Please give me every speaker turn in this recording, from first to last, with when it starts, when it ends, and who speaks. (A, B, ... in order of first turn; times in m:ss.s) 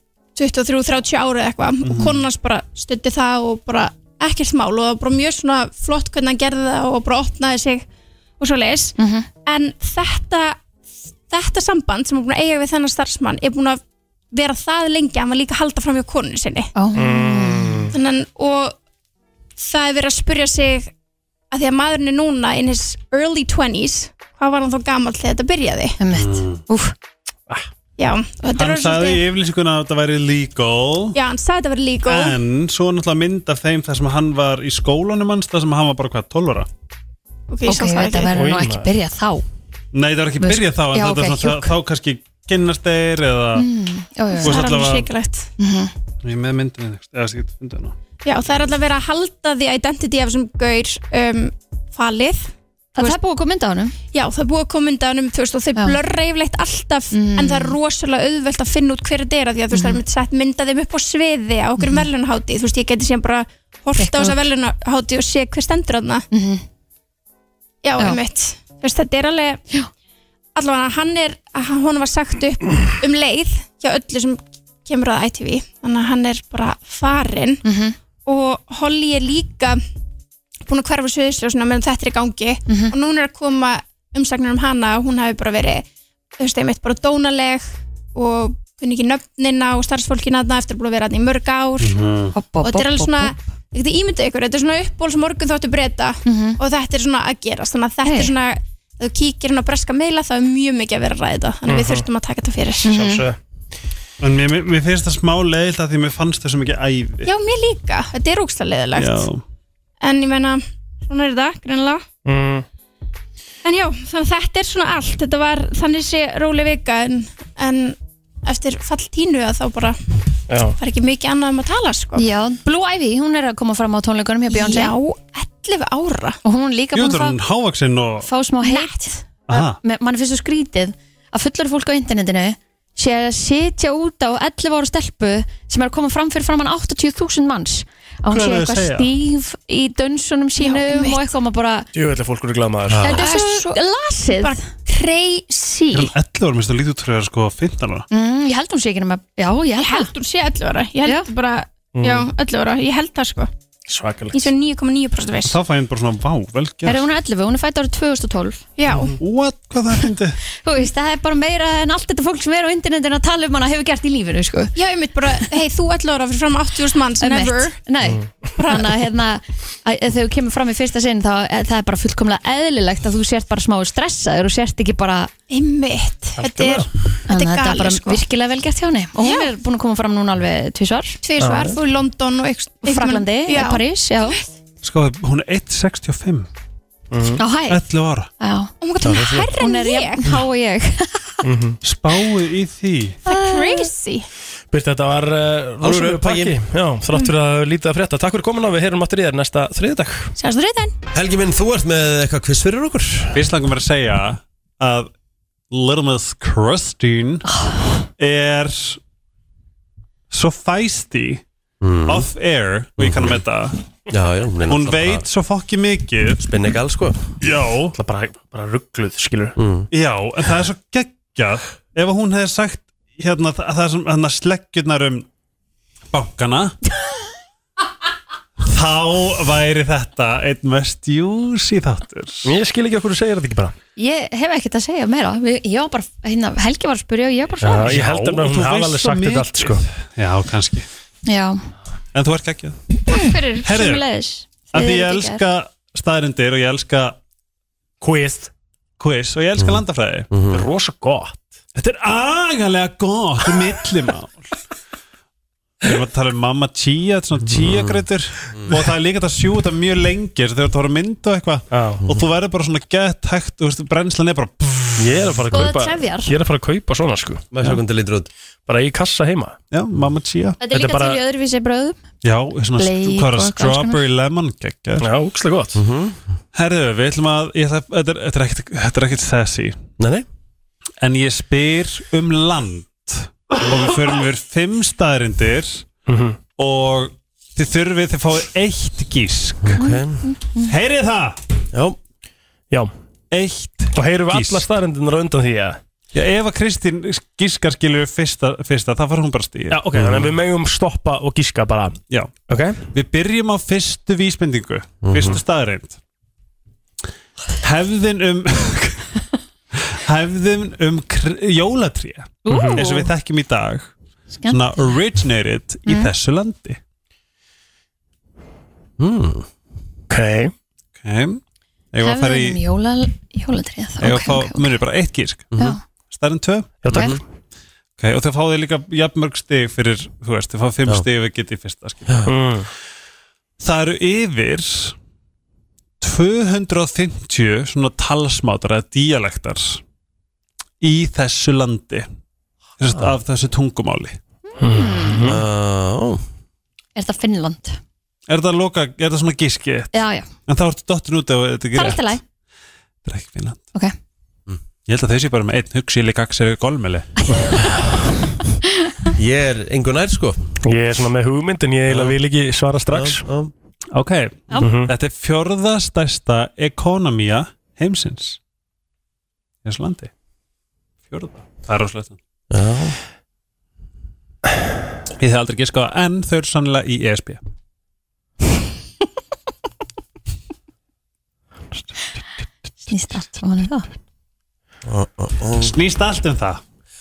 0:00.4-0:07.9 A
0:01.8-0:02.2 B
0:08.4-0:10.6 A
0:09.0-0:09.3 C
0:11.3-0:13.8 A
0:14.3-0:16.7 A
0:16.8-0:17.9 C
0:17.0-0:18.0 D
0:17.9-0:18.8 A
0:19.6-0:20.9 A
0:21.5-0:26.0 A
0:26.0-0:26.9 C
0:26.1-0:26.6 B
0:28.0-0:29.2 A
0:28.6-0:31.2 B
0:31.1-0:32.4 A
0:32.0-0:36.7 B
0:37.5-0:38.4 A
0:37.7-0:39.4 C
0:38.3-0:38.9 D
0:39.9-0:43.7 B
0:40.4-0:41.7 C
0:43.6-0:44.6 C
0:44.4-0:45.5 A
0:44.4-0:45.1 B
0:45.6-0:45.9 C
0:46.2-0:48.0 B
0:48.2-0:53.2 A
0:53.0-0:54.0 C
0:54.1-1:06.3 A
0:57.1-0:57.8 C
0:59.7-1:00.0 C
1:01.8-1:02.1 C
1:04.0-1:04.5 C
1:06.3-1:06.6 C
1:07.8-1:09.6 A
1:10.6-1:17.6 A
1:17.6-1:18.0 C
1:18.2-1:19.8 A
1:20.7-1:25.9 A
1:22.7-1:22.9 C
1:26.4-1:32.0 A
1:31.8-1:32.4 B
1:32.4-1:33.3 C
1:32.6-1:43.0 A
1:36.2-1:36.6 C
1:38.0-1:38.3 C
1:41.7-1:42.1 D
1:42.8-1:43.2 C
1:42.9-1:43.4 D
1:44.2-1:47.3 B
1:47.2-1:49.3 A
1:49.0-1:49.4 B
1:50.0-1:52.0 A
1:52.3-1:52.7 D
1:53.6-2:00.0 A
2:00.5-2:00.8 D
2:00.8-2:02.2 A
2:02.2-2:05.0 C
2:04.5-2:06.4 A
2:06.4-2:07.4 C
2:07.0-2:08.3 B
2:08.2-2:21.9 C
2:08.6-2:09.2 A
2:09.5-2:09.8 B
2:18.3-2:19.1 B
2:20.6-2:21.3 A
2:21.9-2:23.2 D
2:23.0-2:24.6 C
2:23.0-2:26.1 A
2:25.9-2:28.1 B
2:28.1-2:30.1 C
2:29.8-2:33.5 A
2:32.0-2:32.3 D
2:33.9-2:34.5 D
2:34.3-2:35.6 A
2:35.4-2:37.1 B
2:36.8-2:38.6 C
2:38.8-2:39.2 A
2:39.2-2:40.4 B
2:40.6-2:44.8 C
2:44.8-2:47.8 A
2:47.2-2:55.3 C
2:48.6-2:49.0 A
2:55.5-2:58.2 A
2:56.4-2:56.9 D
2:57.3-3:01.2 C
2:59.2-2:59.5 A
3:01.2-3:03.8 A
3:01.4-3:01.8 D
3:02.8-3:04.4 C
3:04.8-3:06.5 B
3:07.1-3:07.4 D
3:07.4-3:07.8 C
3:07.7-3:08.3 B
3:08.4-3:08.7 C
3:08.8-3:10.3 A
3:09.5-3:11.4 C
3:11.4-3:11.8 D
3:11.8-3:13.2 B
3:13.3-3:13.9 C
3:13.3-3:14.3 A
3:14.7-3:20.3 D
3:15.8-3:16.6 E
3:20.4-3:21.0 A
3:21.1-3:23.5 E
3:23.3-3:25.1 B
3:25.7-3:27.4 B
3:28.2-3:29.0 B
3:30.3-3:31.4 B
3:31.8-3:32.3 E
3:32.1-3:33.8 B
3:33.0-3:33.4 E
3:34.1-3:35.2 E
3:34.7-3:36.4 B
3:36.4-3:37.2 E
3:37.4-3:38.0 B
3:37.9-3:39.6 D
3:39.6-3:39.9 E
3:39.9-3:45.3 B
3:46.1-3:46.8 B
3:48.6-3:52.5 B
3:52.4-3:53.8 D
3:54.0-3:58.0 C
3:57.6-3:59.8 D
3:57.8-4:00.9 B
4:01.3-4:01.6 C
4:02.1-4:02.8 B
4:03.1-4:05.4 C
4:03.6-4:04.0 B
4:04.7-4:07.2 B
4:08.0-4:08.5 D
4:09.0-4:10.3 B
4:09.6-4:10.7 E
4:10.5-4:11.4 D
4:11.8-4:14.5 B
4:15.8-4:25.4 B
4:17.5-4:18.8 E
4:21.7-4:22.0 D
4:25.0-4:27.4 D
4:25.5-4:26.3 C
4:27.5-4:28.3 E
4:28.7-4:29.6 D
4:29.7-4:30.6 B
4:30.6-4:32.0 C
4:30.7-4:31.2 D
4:32.2-4:35.1 B
4:32.8-4:34.0 C
4:35.0-4:35.8 D
4:35.8-4:36.2 E
4:36.6-4:39.8 B
4:40.0-4:40.3 E
4:41.0-4:45.8 B
4:46.1-4:46.4 D
4:46.6-4:49.8 B
4:49.6-4:50.2 E
4:49.8-4:50.7 C
4:50.6-4:51.4 B
4:51.7-4:52.0 E
4:53.3-4:54.7 B
4:54.0-4:55.8 D
4:56.1-4:59.8 B
4:59.7-5:02.9 D
5:00.0-5:00.3 E
5:02.9-5:06.0 B
5:05.0-5:05.4 E
5:07.6-5:09.2 B
5:09.7-5:13.9 B
5:12.4-5:13.1 C
5:12.5-5:12.8 D
5:14.4-5:15.0 C
5:14.5-5:16.8 B
5:15.9-5:16.1 C
5:19.0-5:19.5 E
5:20.1-5:20.5 D
5:21.0-5:21.4 B
5:21.9-5:22.6 B
5:22.0-5:24.7 C
5:24.0-5:25.5 B
5:25.5-5:25.8 E
5:26.1-5:26.8 B
5:26.8-5:27.2 D
5:26.9-5:27.2 E
5:28.0-5:32.3 B
5:32.3-5:32.7 D
5:33.6-5:35.0 B
5:36.0-5:39.8 B
5:40.8-5:42.1 B
5:42.8-5:44.2 B
5:44.5-5:45.3 C
5:44.6-5:45.4 D
5:45.2-5:46.2 E
5:47.0-5:47.8 C
5:48.3-5:50.0 B
5:49.9-5:50.3 C
5:50.5-5:52.2 B
5:51.7-5:52.2 C
5:53.0-5:53.6 B
5:54.9-5:57.7 B
5:57.2-5:57.8 C
5:58.8-5:59.1 C
5:59.2-6:00.4 E
6:00.6-6:03.2 D
6:02.9-6:03.5 E
6:03.9-6:08.4 B
6:04.6-6:04.9 D
6:09.6-6:10.1 B
6:11.1-6:12.2 B
6:12.5-6:13.0 E
6:15.2-6:17.4 B
6:22.9-6:23.9 C
6:24.8-6:25.8 E
6:25.6-6:26.6 B